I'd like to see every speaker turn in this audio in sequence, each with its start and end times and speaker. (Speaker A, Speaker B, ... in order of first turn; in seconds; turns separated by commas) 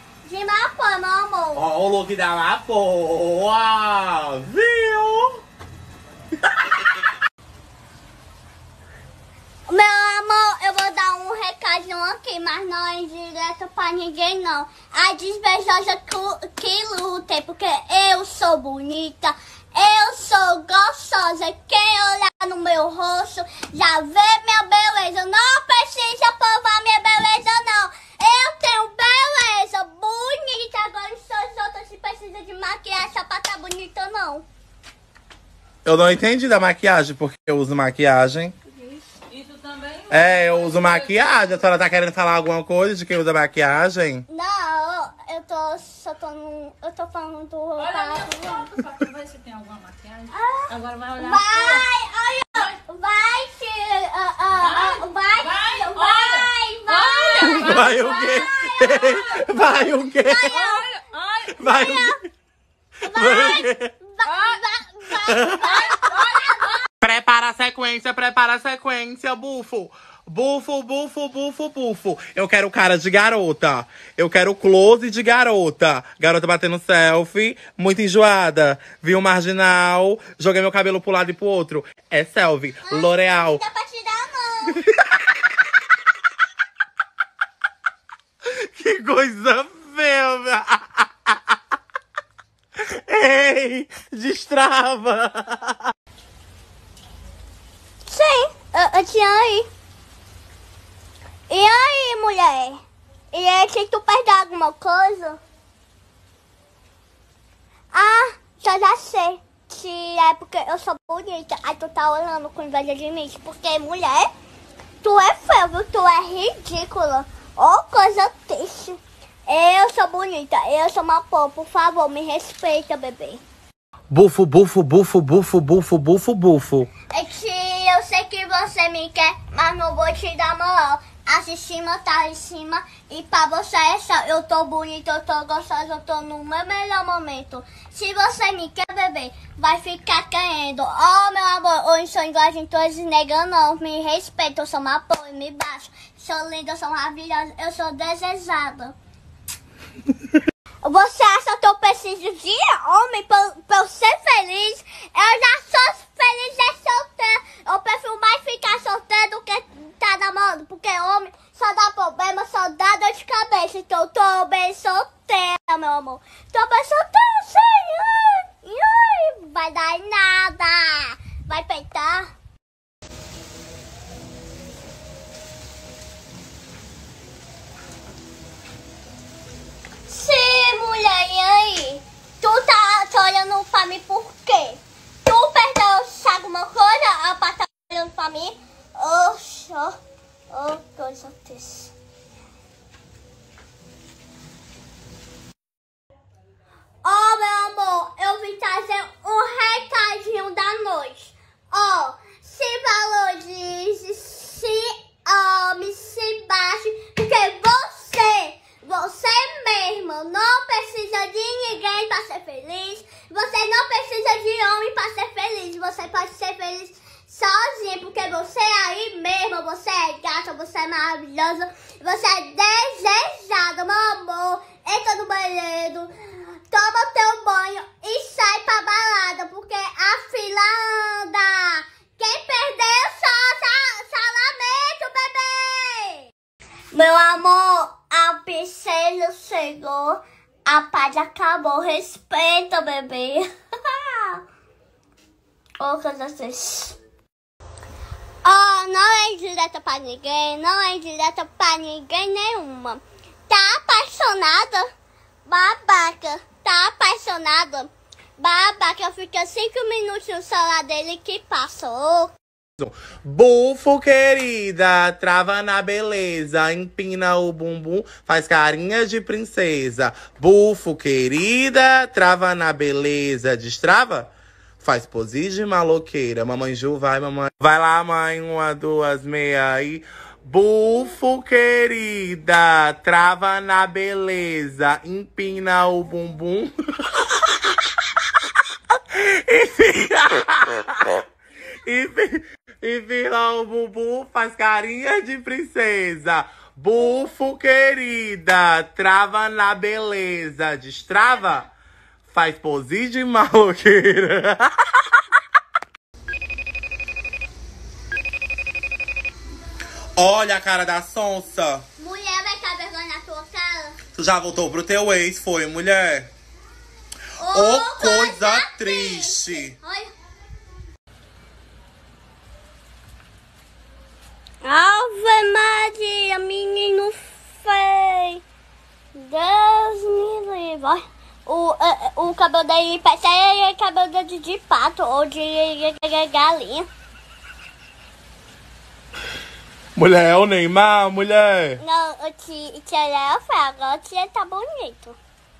Speaker A: 0.2-1.6, Speaker B: 1.5-5.4, Speaker A: 9.7-34.5, Speaker B: 35.8-38.5, Speaker C: 39.3-41.2, Speaker B: 40.1-44.2, Speaker A: 44.3-48.7, Speaker C: 47.8-51.8, Speaker A: 50.3-61.1, Speaker C: 54.6-58.4, Speaker B: 57.3-60.7, Speaker C: 60.5-61.5, Speaker B: 61.5-62.2, Speaker A: 61.6-62.2, Speaker A: 63.0-66.8, Speaker B: 63.1-63.9, Speaker C: 64.2-64.6, Speaker B: 65.3-65.9, Speaker C: 65.8-66.8, Speaker B: 67.0-83.6, Speaker A: 82.8-84.8, Speaker B: 84.8-85.1, Speaker B: 88.5-91.6, Speaker B: 92.8-95.9, Speaker A: 98.0-99.7, Speaker A: 101.5-105.4, Speaker A: 107.9-114.3, Speaker A: 115.0-123.4, Speaker B: 124.1-126.9, Speaker A: 127.1-148.9, Speaker A: 150.8-172.3, Speaker A: 180.1-190.0, Speaker A: 190.5-191.9, Speaker A: 197.0-236.3, Speaker A: 236.9-244.4, Speaker A: 245.8-247.0, Speaker A: 248.4-254.9, Speaker A: 255.4-262.3, Speaker B: 262.8-287.4, Speaker B: 289.1-291.2, Speaker B: 291.8-301.7, Speaker B: 302.3-305.2, Speaker B: 310.1-311.8, Speaker A: 312.0-314.0, Speaker B: 314.1-316.3, Speaker A: 317.4-320.1, Speaker B: 317.5-319.8, Speaker A: 324.6-328.4, Speaker A: 329.1-336.9, Speaker B: 339.9-341.8, Speaker A: 341.8-345.2